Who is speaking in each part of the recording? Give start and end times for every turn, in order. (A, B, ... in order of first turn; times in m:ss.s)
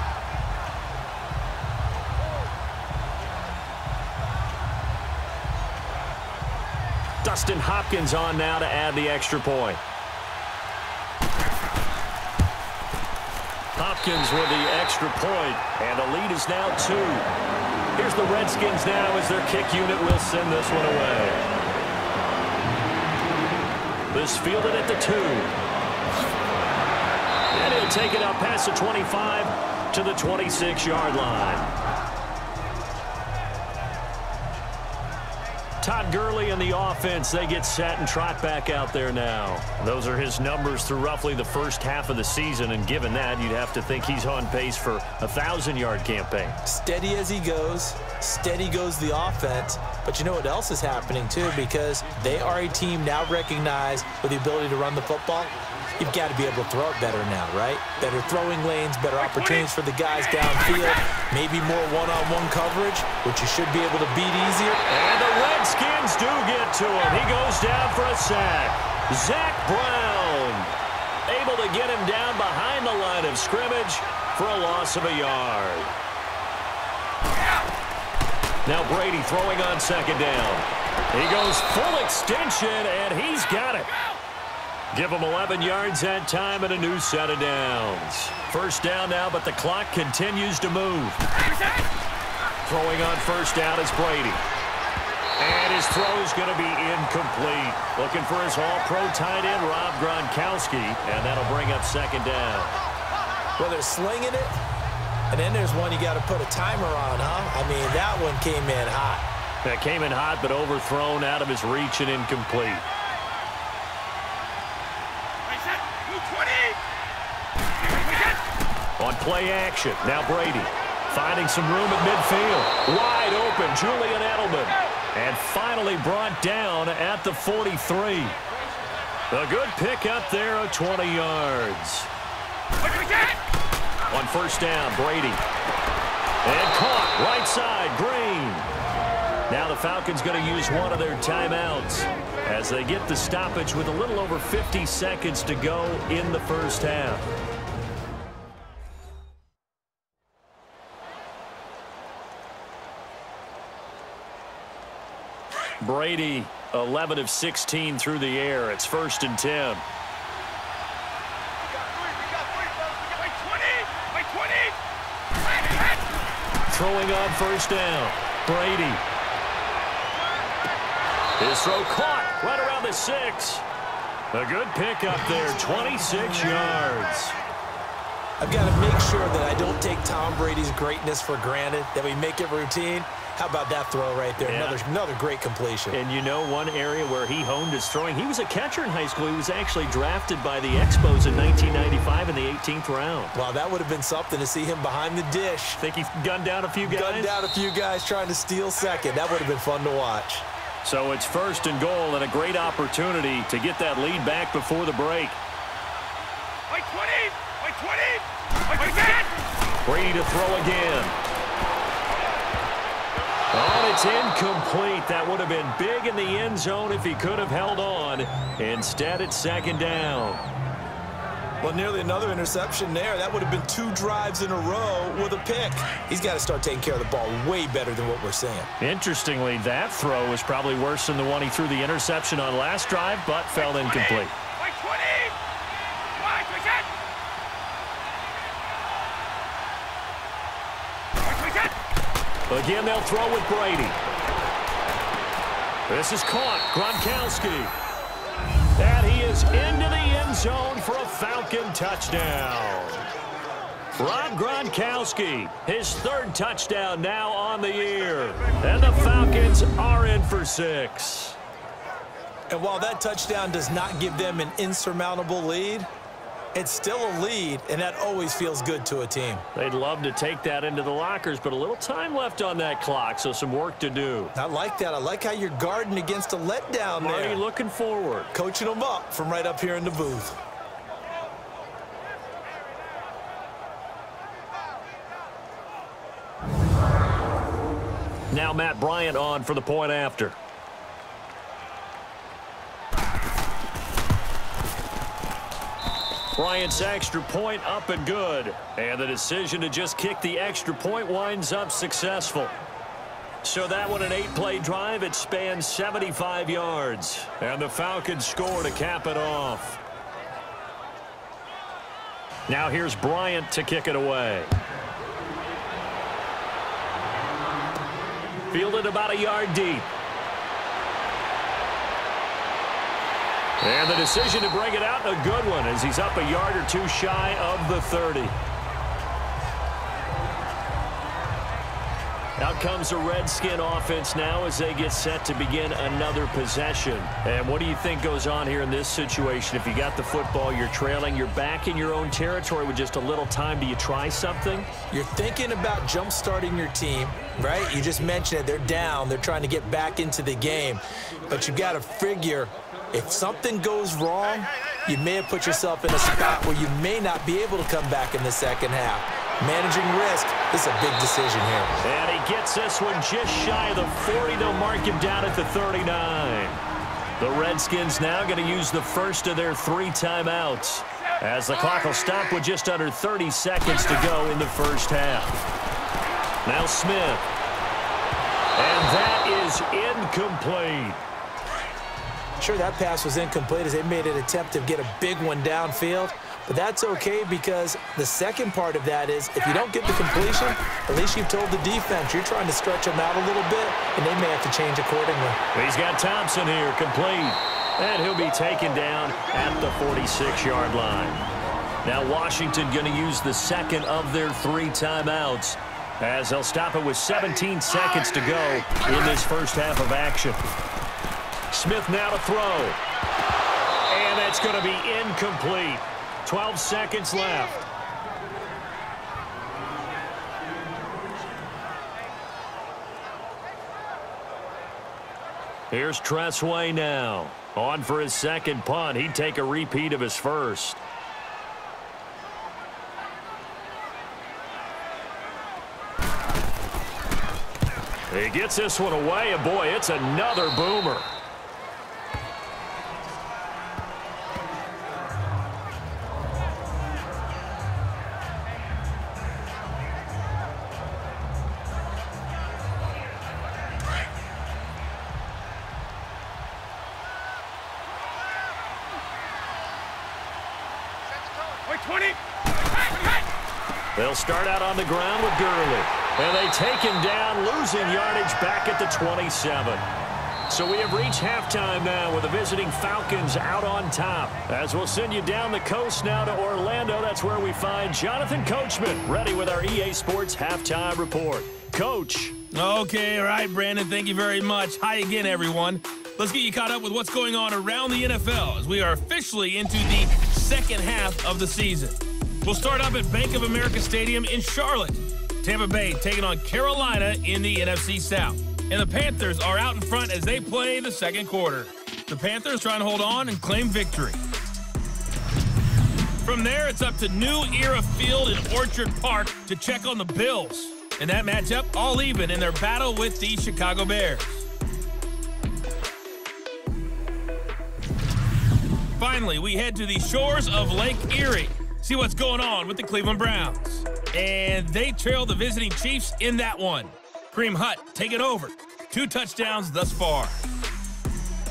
0:07.2-0:09.8 A
0:13.8-0:17.3 A
0:17.9-0:21.4 A
0:24.1-0:25.5 A
0:27.5-0:31.7 A
0:35.8-0:46.6 A
0:46.6-1:04.8 B
1:04.9-1:10.7 A
1:11.3-1:15.9 A
1:18.6-1:23.9 A
1:24.9-1:31.2 A
1:32.6-1:34.4 A
1:35.4-1:42.8 A
1:43.6-1:44.6 B
1:45.3-1:49.2 B
1:49.6-1:52.8 A
1:55.4-1:56.8 C
1:57.8-1:58.4 C
1:59.0-2:08.4 A
2:09.3-2:12.1 A
2:12.8-2:13.4 C
2:14.1-2:15.4 A
2:16.4-2:18.7 A
2:19.5-2:27.3 A
2:35.8-2:39.8 A
2:43.1-2:44.8 C
2:45.4-2:46.0 C
2:46.7-2:49.0 A
2:51.4-2:53.6 A
2:54.3-2:57.4 A
2:58.4-3:06.0 B
3:04.4-3:04.8 A
3:05.9-3:13.3 A
3:13.3-3:15.8 B
3:15.8-3:17.3 A
3:16.8-3:20.4 B
3:20.8-3:25.4 A
3:26.7-3:29.3 C
3:29.8-3:31.1 A
3:33.5-3:40.4 A
3:41.6-3:48.7 B
3:48.8-3:54.3 A
3:53.6-3:55.4 C
3:56.1-3:56.9 C
4:01.2-4:01.8 C
4:02.5-4:04.0 A
4:05.9-4:07.7 A
4:08.8-4:13.0 A
4:14.0-4:21.4 A
4:22.5-4:25.9 B
4:26.5-4:29.4 B
4:29.5-4:34.3 A
4:34.3-4:37.4 B
4:37.0-4:38.3 A
4:38.3-4:40.4 B
4:48.3-4:50.4 A
4:56.3-5:02.5 A
5:03.4-5:09.8 A
5:12.5-5:14.5 A
5:18.5-5:19.9 A
5:23.6-5:28.3 A
5:32.4-5:44.7 A
5:44.9-6:01.7 B
6:01.8-6:06.6 A
6:07.2-6:15.4 A
6:16.4-6:17.3 A
6:18.6-6:21.0 A
6:22.4-6:35.4 B
6:35.5-6:41.2 A
6:41.8-6:50.4 A
6:51.5-6:52.8 A
6:53.9-6:57.6 A
7:05.7-7:10.8 A
7:18.1-7:21.1 A
7:41.4-7:43.2 C
7:44.0-7:49.8 A
7:50.5-8:02.4 A
8:02.5-8:24.2 D
8:26.2-8:34.4 D
8:39.0-8:50.3 D